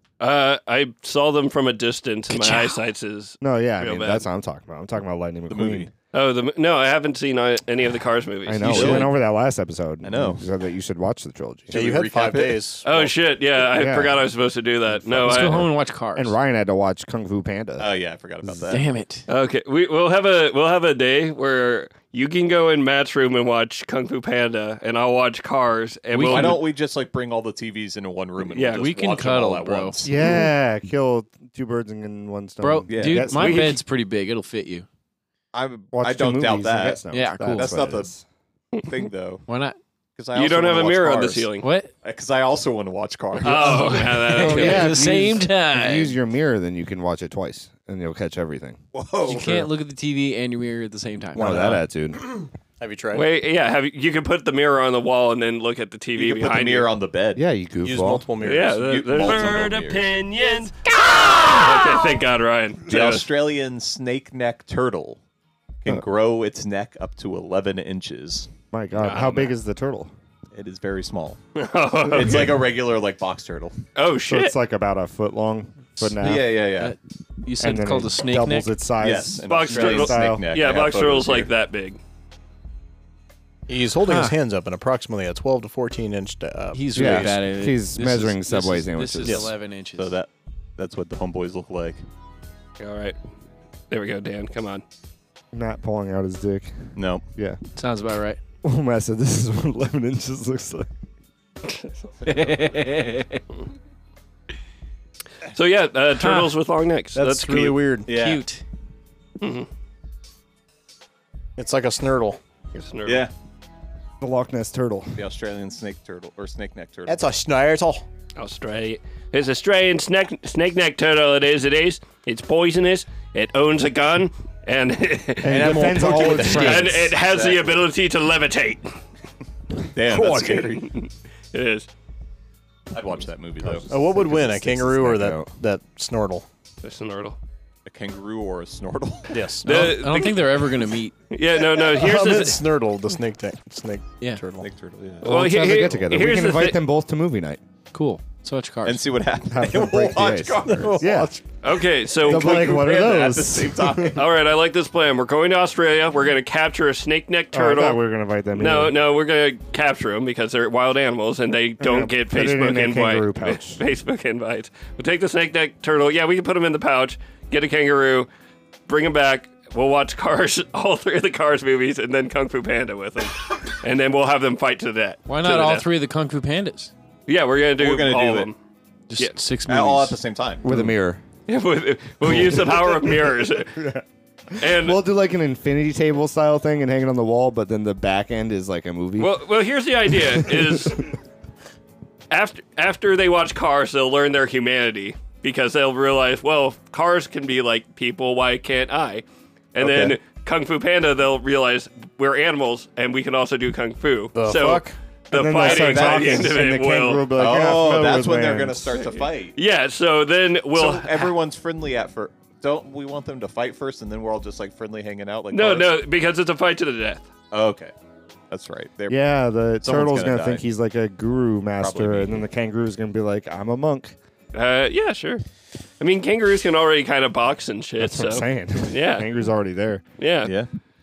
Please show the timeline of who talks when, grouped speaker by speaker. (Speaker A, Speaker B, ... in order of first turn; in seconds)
Speaker A: 0.2-4.2, 6.1-9.1, 12.8-15.7, 19.3-26.6, 28.5-28.9, 33.3-33.8, 40.3-41.6, 43.4-44.9, 53.1-56.9, 58.4-63.3, 69.0-69.5, 71.5-72.7, 74.0-74.5, 79.5-82.0, 92.8-93.2, 93.9-94.8, 105.5-107.8, 109.4-109.7, 112.7-113.2, 118.4-128.9, 130.2-131.9, 136.8-137.4, 139.6-140.5, 141.3-142.6, 145.2-146.8, 151.6-152.9, 154.2-158.0, 158.6-168.3, 168.9-175.9, 177.3-178.6, 181.5-183.8, 184.6-185.0, 189.2-191.1, 192.3-199.2, 199.8-207.3, 208.9-211.3, 215.5-217.3, 224.5-225.4, 226.0-229.3, 230.2-230.5
Speaker B: 2.3-2.8, 15.2-16.4, 18.7-19.3, 26.1-26.6, 28.8-30.1, 32.6-34.9, 37.1-37.7, 39.5-39.8, 41.6-41.9, 43.6-46.1, 49.2-51.8, 76.8-78.8, 84.1-84.3, 86.7-90.2, 97.8-98.4, 102.2-103.4, 106.2-106.5, 108.1-108.6, 139.6-141.1, 147.9-149.1, 175.3-176.9, 179.1-180.2
Speaker C: 3.4-5.9, 8.4-11.9, 13.7-14.2, 16.1-17.9, 18.4-18.8, 30.0-33.7, 35.9-38.2, 44.4-48.8, 51.4-52.2, 57.4-58.2, 68.7-70.1, 74.3-76.6, 77.6-80.5, 86.9-89.5, 95.5-97.6, 98.6-100.9, 114.2-115.2, 125.4-127.1, 133.6-135.5, 142.0-142.5, 145.2-147.6, 149.5-151.3, 152.2-154.2, 157.5-158.9, 161.8-163.8, 180.6-181.2, 183.8-184.0, 184.6-189.3, 190.2-190.9, 205.3-208.9, 219.1-224.2, 228.0-230.0
Speaker D: 5.5-5.9, 8.6-9.1, 10.0-10.4, 11.7-12.6, 17.8-18.9, 26.2-30.4, 32.9-33.4, 35.5-38.1, 38.8-39.4, 40.2-41.5, 42.0-44.7, 48.9-49.7, 56.1-57.4, 58.8-60.1, 62.9-65.2, 65.8-68.5, 70.5-71.4, 72.1-73.8, 76.2-76.9, 79.0-81.5, 89.2-92.0, 97.0-97.2, 108.1-108.4, 113.0-113.3, 115.2-117.2, 125.5-127.8, 129.9-130.9, 132.9-133.9, 137.9-139.4, 144.6-146.0, 148.8-151.3, 152.2-154.2, 177.8-178.5, 179.6-180.8, 199.8-200.2, 205.6-206.6, 207.3-209.6, 210.8-215.9, 217.5-217.9, 218.5-219.2, 219.8-220.6, 221.8-222.4, 230.4-230.7
Speaker E: 11.7-13.1, 51.4-51.8, 52.8-53.3, 57.8-59.0, 83.7-87.3, 107.1-108.1, 111.6-112.4, 117.1-118.0, 125.5-126.6, 133.9-136.4, 139.3-139.9, 142.0-144.7, 150.7-151.3, 204.3-204.9